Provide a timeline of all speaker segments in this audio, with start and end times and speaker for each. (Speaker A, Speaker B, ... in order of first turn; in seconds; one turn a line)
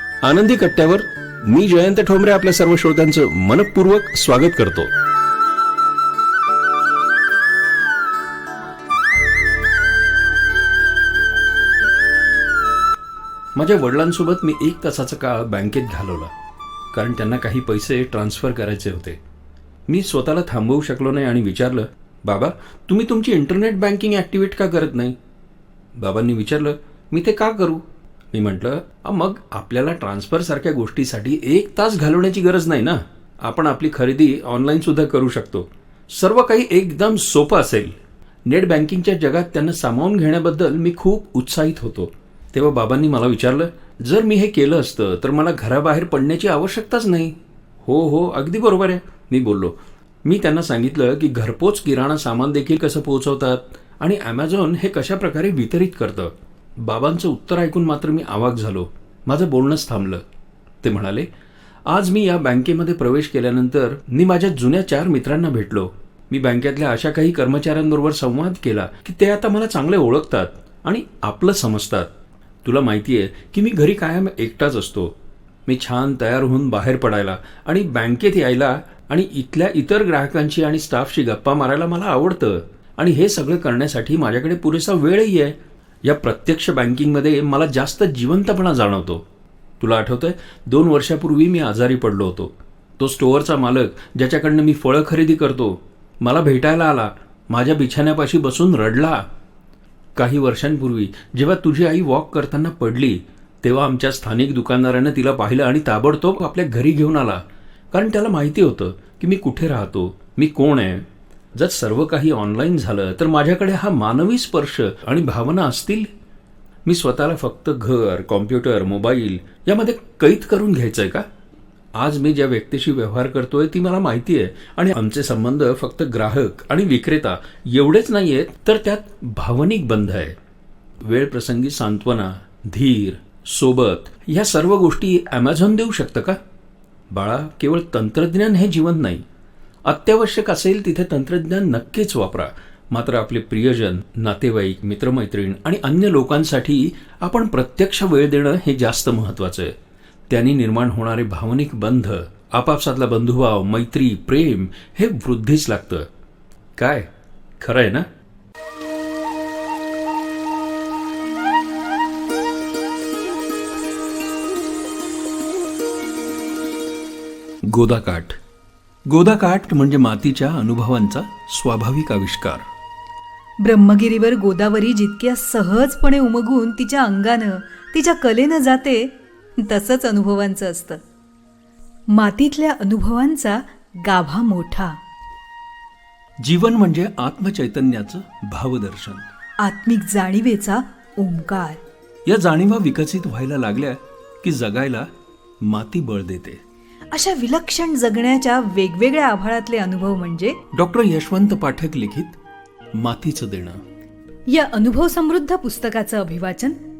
Speaker A: 0.2-4.9
Speaker A: 13.5-16.3
Speaker A: 16.9-19.2
Speaker A: 19.9-25.1
Speaker A: 25.9-60.2
Speaker A: 60.8-61.3
Speaker A: 61.9-72.1
Speaker A: 72.6-89.2
Speaker A: 89.8-99.2
Speaker A: 100.2-116.1
Speaker A: 116.8-121.2
Speaker A: 121.9-130.3
Speaker A: 131.0-136.4
Speaker A: 137.1-139.2
Speaker A: 139.8-149.7
Speaker A: 150.3-156.1
Speaker A: 156.8-157.1
Speaker A: 157.6-158.1
Speaker A: 167.7-168.4
Speaker A: 169.1-172.6
Speaker B: 173.6-181.0
Speaker B: 182.1-185.0
Speaker A: 186.4-189.2
Speaker B: 189.6-191.8
Speaker A: 192.2-195.1
Speaker A: 195.6-196.6
Speaker B: 197.1-200.6
Speaker A: 200.7-202.4
Speaker A: 202.9-203.8
Speaker B: 204.5-206.8